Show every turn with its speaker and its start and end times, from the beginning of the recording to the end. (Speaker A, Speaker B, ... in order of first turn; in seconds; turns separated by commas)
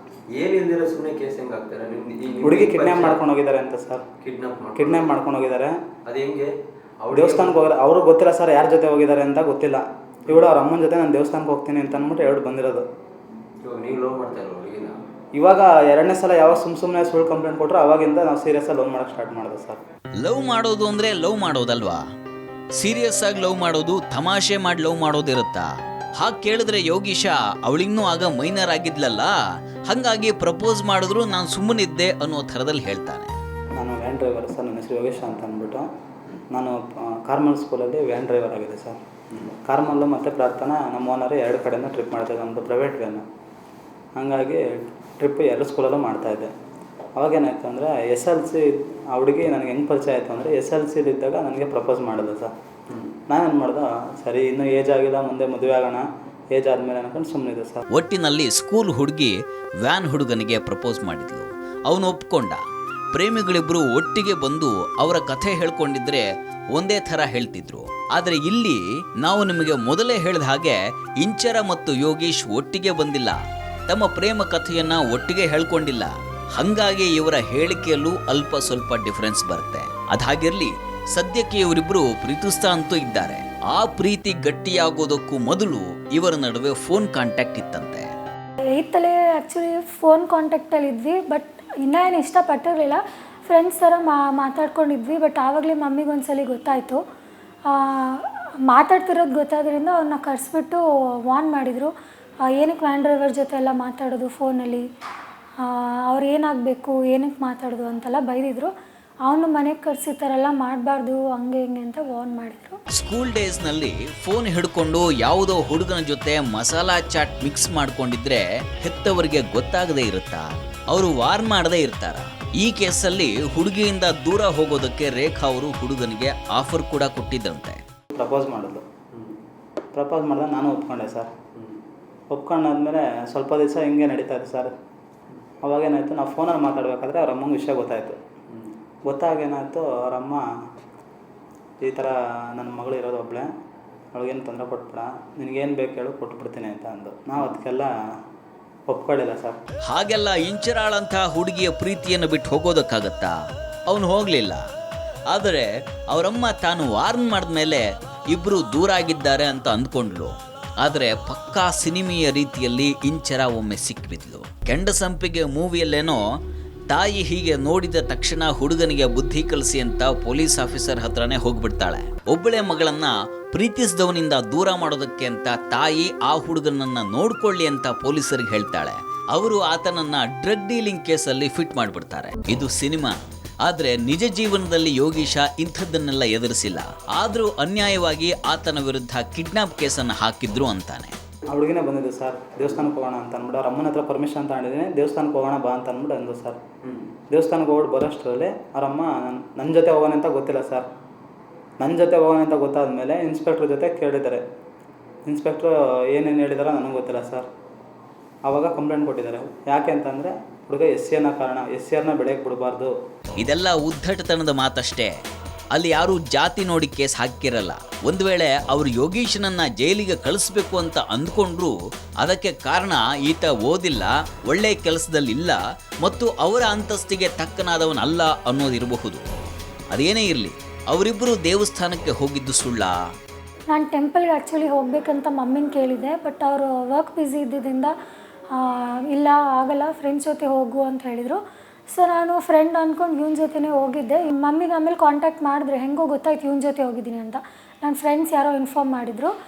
Speaker A: 0.3-3.2, Speaker B: 2.4-4.0, Speaker A: 4.2-5.2, Speaker B: 4.8-5.8, Speaker A: 6.1-7.7, Speaker B: 7.1-12.8, Speaker A: 13.6-15.0, Speaker B: 15.3-19.8, Speaker C: 20.2-22.0, Speaker C: 22.8-29.3, Speaker C: 29.9-33.3, Speaker B: 33.8-35.9, Speaker B: 36.5-43.2, Speaker B: 44.1-46.5, Speaker B: 47.1-52.5, Speaker B: 53.3-57.8, Speaker C: 57.9-62.6, Speaker C: 63.1-88.1, Speaker D: 88.8-97.0, Speaker D: 97.7-101.9, Speaker D: 102.5-104.8, Speaker D: 105.6-108.7, Speaker D: 109.2-112.8, Speaker C: 112.9-127.8, Speaker B: 128.1-128.8, Speaker B: 129.9-131.3, Speaker B: 132.3-134.7, Speaker B: 135.6-138.2, Speaker B: 139.1-140.4, Speaker B: 141.8-143.5, Speaker B: 144.1-147.9, Speaker B: 148.9-149.6, Speaker C: 149.9-153.4, Speaker C: 153.9-154.6, Speaker C: 155.3-166.2, Speaker C: 166.9-191.1, Speaker B: 191.5-196.6, Speaker B: 197.3-200.8, Speaker B: 201.8-204.4, Speaker B: 205.3-207.5, Speaker B: 208.4-212.9, Speaker C: 213.4-215.1, Speaker C: 215.7-229.2, Speaker C: 229.9-233.0, Speaker D: 233.7-237.9, Speaker D: 238.5-241.4, Speaker D: 241.9-249.3